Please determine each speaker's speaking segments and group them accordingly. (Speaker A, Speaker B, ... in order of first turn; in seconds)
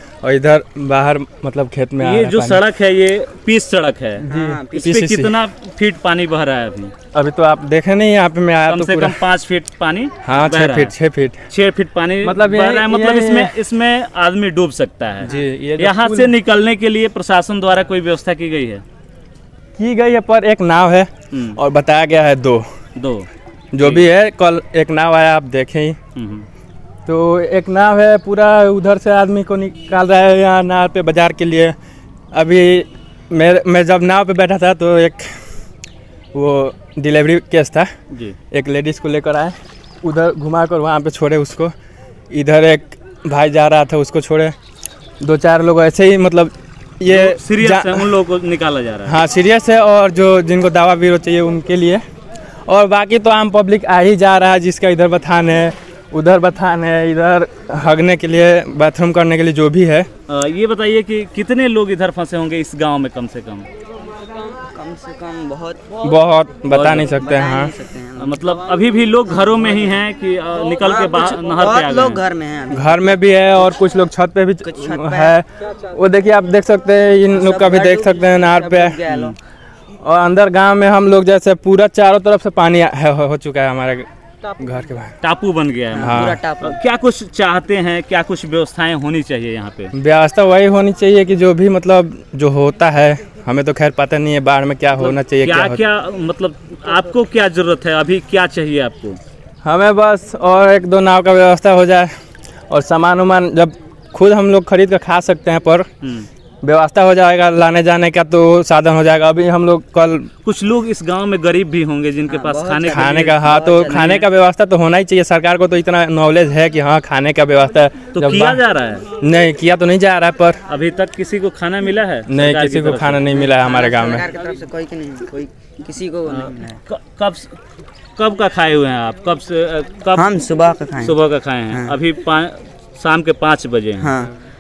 Speaker A: 0.2-2.6, 4.3-5.4, 7.1-9.2, 10.2-11.4, 12.2-13.5, 15.3-16.3, 19.8-22.6, 23.7-26.0, 27.1-31.8, 32.3-35.3, 36.3-37.9, 38.5-41.7, 42.3-44.5, 45.2-48.2, 49.1-52.0, 52.7-60.1, 66.0-67.7, 72.7-79.0, 80.0-84.1, 84.6-85.2, 86.0-86.4, 89.9-95.8, 99.6-102.1, 102.7-105.9, 106.6-110.3, 112.9-118.6, 119.2-120.6, 122.3-124.3
Speaker B: 2.0-6.9, 8.7-10.9, 11.5-18.8, 21.3-21.6, 23.0-23.3, 23.8-24.1, 26.1-26.5, 38.1-38.4, 47.1-49.2, 60.3-63.7, 66.7-67.3, 68.2-72.2, 79.1-79.3, 85.2-89.9, 95.0-99.2, 110.4-114.3, 118.2-119.0, 120.7-123.4, 126.3-127.6, 128.2-130.3, 131.0-134.1
Speaker C: 4.2-4.9, 64.3-66.0, 67.0-68.4, 69.3-69.5, 70.8-73.8, 74.6-75.4, 77.3-79.3, 85.9-86.8, 112.3-114.2, 123.3-126.8, 130.1-131.2, 131.7-132.0, 134.0-134.3